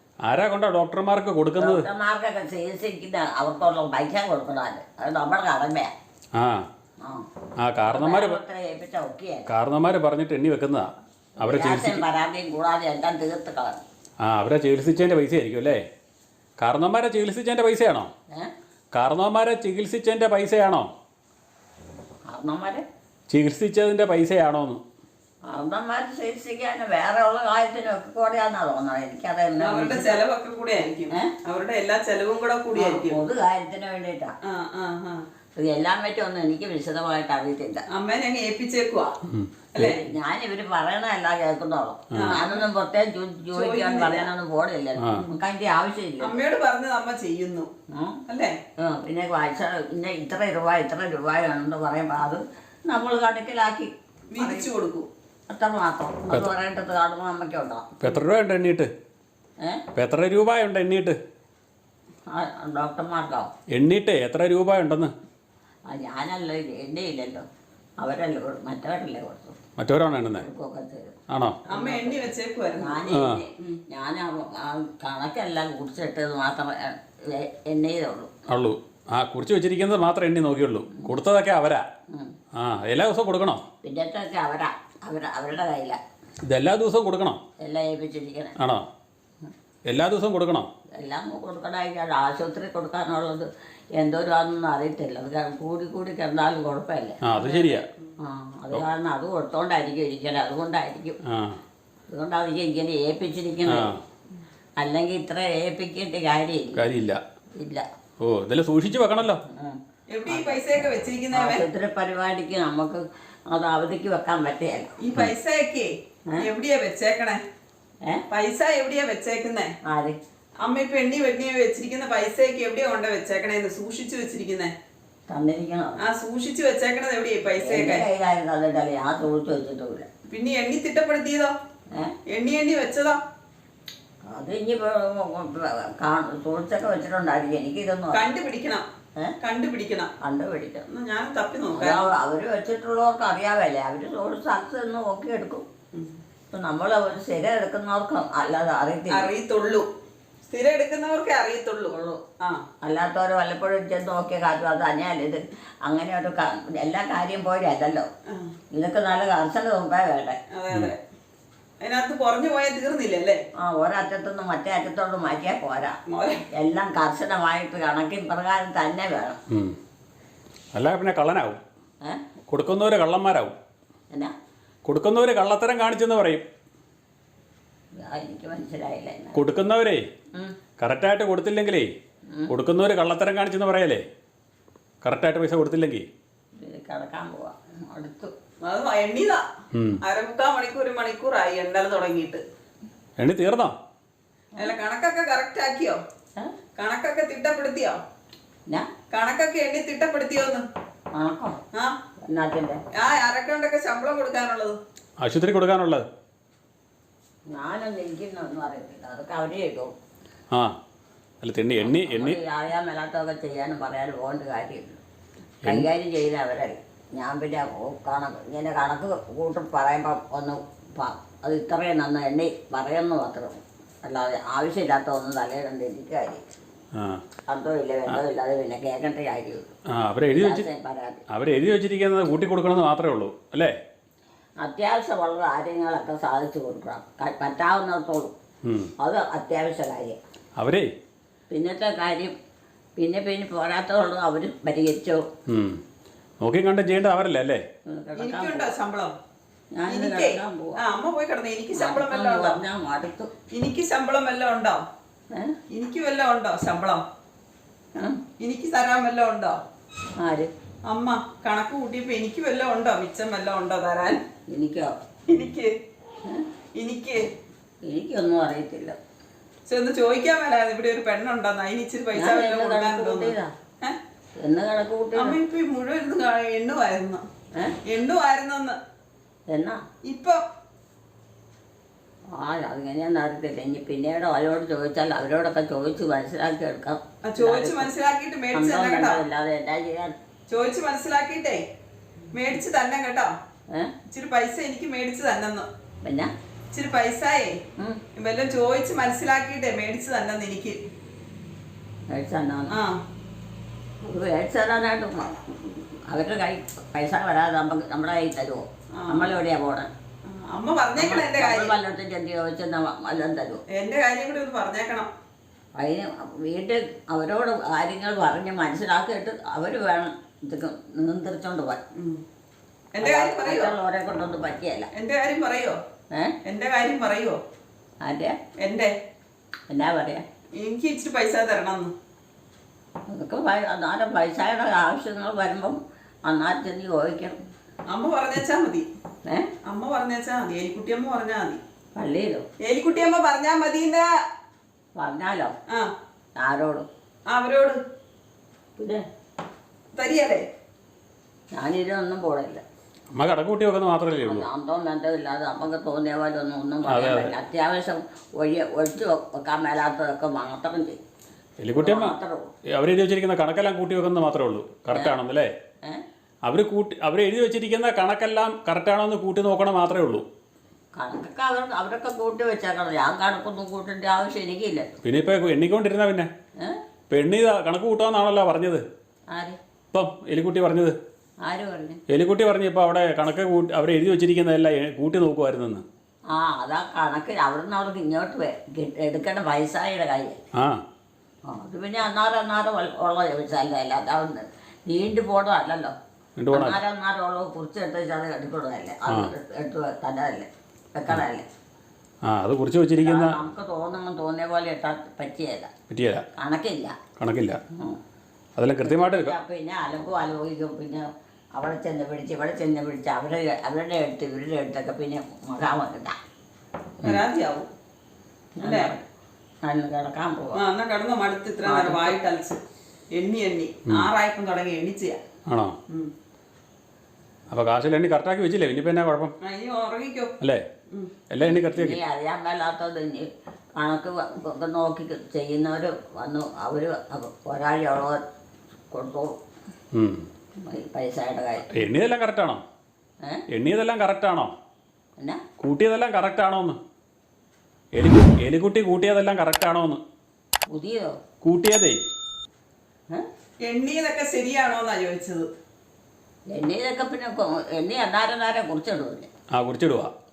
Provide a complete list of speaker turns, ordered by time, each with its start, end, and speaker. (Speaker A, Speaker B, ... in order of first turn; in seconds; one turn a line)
Speaker A: 0.2-1.9
Speaker B: 1.6-5.9
Speaker A: 6.3-6.7
Speaker B: 7.0-7.3
Speaker A: 7.6-8.4
Speaker B: 7.9-9.5
Speaker A: 9.5-12.0
Speaker B: 11.4-13.8
Speaker A: 14.2-15.8
Speaker A: 16.6-18.1
Speaker A: 18.9-20.9
Speaker B: 22.3-22.8
Speaker A: 23.3-24.8
Speaker B: 25.5-30.2
Speaker C: 29.6-33.2
Speaker B: 32.7-34.3
Speaker C: 34.4-35.2
Speaker B: 35.5-37.9
Speaker C: 37.9-39.1
Speaker A: 39.2-39.8
Speaker B: 39.8-46.4
Speaker A: 42.1-42.4
Speaker C: 42.2-42.6
Speaker C: 43.5-44.3
Speaker A: 45.0-45.3
Speaker C: 46.2-47.7
Speaker B: 47.9-48.2
Speaker C: 48.3-48.6
Speaker B: 48.8-54.7
Speaker C: 54.3-55.1
Speaker B: 55.5-58.1
Speaker A: 58.0-58.9
Speaker B: 59.6-59.9
Speaker A: 60.0-61.2
Speaker B: 62.3-63.5
Speaker A: 63.7-65.1
Speaker B: 65.9-67.5
Speaker B: 68.0-69.6
Speaker A: 69.8-70.5
Speaker B: 70.4-78.3
Speaker A: 71.3-71.6
Speaker C: 71.7-73.1
Speaker A: 73.1-73.4
Speaker A: 78.5-81.9
Speaker B: 82.1-82.4
Speaker A: 82.5-83.6
Speaker B: 83.8-86.0
Speaker A: 86.4-87.4
Speaker B: 87.6-88.6
Speaker A: 88.6-88.9
Speaker A: 89.9-90.7
Speaker B: 90.9-97.2
Speaker A: 97.2-97.9
Speaker C: 97.4-97.9
Speaker B: 98.2-101.2
Speaker A: 101.2-101.6
Speaker B: 102.1-104.0
Speaker A: 103.7-104.0
Speaker B: 104.8-106.9
Speaker A: 106.8-107.2
Speaker B: 107.6-107.9
Speaker A: 108.2-109.4
Speaker B: 109.5-110.6
Speaker C: 110.1-111.6
Speaker B: 111.3-115.0
Speaker C: 115.0-117.4
Speaker C: 118.3-119.8
Speaker B: 119.8-120.2
Speaker C: 120.6-124.7
Speaker B: 125.3-126.0
Speaker C: 126.0-128.1
Speaker B: 127.6-130.1
Speaker C: 130.3-131.6
Speaker C: 132.3-133.2
Speaker B: 134.2-138.2
Speaker C: 138.1-138.9
Speaker C: 139.4-140.1
Speaker B: 140.2-140.8
Speaker C: 140.9-142.1
Speaker B: 141.7-145.7
Speaker B: 146.5-149.3
Speaker C: 149.1-149.9
Speaker C: 150.4-152.6
Speaker B: 151.9-152.2
Speaker B: 152.8-158.1
Speaker B: 158.7-160.4
Speaker C: 160.5-161.0
Speaker C: 161.8-163.4
Speaker B: 163.6-166.0
Speaker C: 166.1-166.4
Speaker B: 166.5-169.4
Speaker A: 169.5-169.8
Speaker A: 170.7-171.6
Speaker A: 172.5-173.6
Speaker A: 174.8-176.4
Speaker B: 178.0-179.4
Speaker A: 179.3-180.1
Speaker A: 180.8-181.9
Speaker B: 182.3-182.5
Speaker A: 182.5-184.0
Speaker A: 185.0-186.1
Speaker B: 186.6-188.3
Speaker C: 188.6-189.4
Speaker A: 189.7-190.0
Speaker C: 190.0-192.4
Speaker A: 193.2-193.8
Speaker C: 194.6-196.0
Speaker C: 196.8-198.0
Speaker C: 199.1-200.7
Speaker B: 201.1-201.6
Speaker C: 201.7-202.0
Speaker B: 202.2-202.8
Speaker C: 202.9-204.8
Speaker A: 205.2-206.1
Speaker B: 207.5-209.9
Speaker A: 210.5-210.8
Speaker A: 211.4-212.4
Speaker B: 211.8-215.0
Speaker B: 215.6-226.4
Speaker A: 226.9-227.2
Speaker B: 227.5-229.7
Speaker A: 229.9-230.7
Speaker B: 230.3-231.2
Speaker A: 231.3-233.7
Speaker B: 234.6-238.3
Speaker A: 238.6-238.9
Speaker B: 239.0-240.2
Speaker A: 240.6-240.9
Speaker B: 241.5-242.4
Speaker B: 243.0-245.3
Speaker A: 245.5-245.8
Speaker A: 246.4-247.6
Speaker B: 247.9-248.8
Speaker C: 248.2-249.1
Speaker B: 249.7-250.8
Speaker C: 249.9-252.6
Speaker B: 251.8-253.3
Speaker C: 253.5-254.8
Speaker B: 255.3-255.6
Speaker C: 255.7-257.0
Speaker C: 258.4-259.6
Speaker B: 260.2-260.5
Speaker C: 260.9-264.2
Speaker B: 264.5-265.0
Speaker C: 265.3-265.8
Speaker C: 266.8-267.3
Speaker B: 267.8-269.0
Speaker C: 269.7-274.0
Speaker B: 272.2-273.5
Speaker B: 274.4-275.4
Speaker C: 275.1-277.2
Speaker C: 277.9-278.8
Speaker B: 279.5-279.8
Speaker C: 280.1-280.4
Speaker B: 282.3-287.9
Speaker C: 287.3-289.2
Speaker B: 288.5-290.2
Speaker C: 290.5-291.6
Speaker C: 292.3-293.4
Speaker C: 294.1-295.7
Speaker B: 296.0-296.3
Speaker C: 296.7-297.6
Speaker C: 298.2-300.8
Speaker B: 302.1-302.8
Speaker C: 302.7-303.0
Speaker B: 304.0-309.9
Speaker C: 308.9-309.3
Speaker C: 310.3-311.7
Speaker B: 311.0-313.6
Speaker C: 313.7-315.1
Speaker B: 315.8-321.8
Speaker C: 321.9-322.2
Speaker C: 322.9-323.8
Speaker B: 323.0-324.9
Speaker C: 324.9-325.8
Speaker C: 326.4-327.4
Speaker B: 328.0-328.4
Speaker C: 328.6-328.9
Speaker B: 329.7-330.2
Speaker C: 330.6-331.9
Speaker B: 333.1-337.4
Speaker C: 337.9-338.9
Speaker B: 339.2-339.5
Speaker C: 339.6-341.6
Speaker B: 342.0-342.4
Speaker C: 342.6-344.1
Speaker B: 345.0-345.6
Speaker B: 346.4-346.9
Speaker C: 347.3-347.8
Speaker B: 348.8-349.1
Speaker C: 349.9-350.5
Speaker B: 351.5-352.6
Speaker A: 353.1-354.5
Speaker B: 354.2-361.0
Speaker A: 356.9-357.3
Speaker A: 361.6-362.2
Speaker B: 361.7-362.5
Speaker A: 362.7-365.5
Speaker A: 366.4-370.2
Speaker B: 370.9-375.0
Speaker A: 375.0-376.3
Speaker A: 377.1-378.8
Speaker B: 379.3-379.6
Speaker A: 379.9-381.0
Speaker B: 381.4-382.0
Speaker A: 382.1-385.9
Speaker B: 386.3-390.4
Speaker A: 390.5-390.8
Speaker B: 391.5-396.0
Speaker A: 396.4-396.8
Speaker B: 396.5-401.5
Speaker A: 402.2-403.4
Speaker B: 403.0-405.7
Speaker A: 405.9-406.2
Speaker B: 406.4-407.0
Speaker A: 407.2-407.6
Speaker B: 407.7-408.0
Speaker A: 408.6-409.3
Speaker B: 408.8-416.2
Speaker C: 417.0-417.7
Speaker B: 418.6-419.1
Speaker C: 418.6-418.9
Speaker B: 419.6-420.6
Speaker C: 420.6-422.6
Speaker B: 421.6-422.2
Speaker C: 423.1-425.2
Speaker A: 425.5-425.8
Speaker A: 427.5-429.4
Speaker C: 429.4-430.4
Speaker A: 431.3-432.0
Speaker B: 431.4-438.2
Speaker B: 438.9-439.4
Speaker A: 439.9-440.3
Speaker B: 440.6-441.8
Speaker A: 441.7-442.6
Speaker A: 443.5-444.5
Speaker A: 445.6-446.8
Speaker A: 447.9-450.0
Speaker B: 450.7-451.2
Speaker A: 451.4-452.0
Speaker C: 453.6-455.5
Speaker B: 456.5-459.3
Speaker A: 459.5-460.1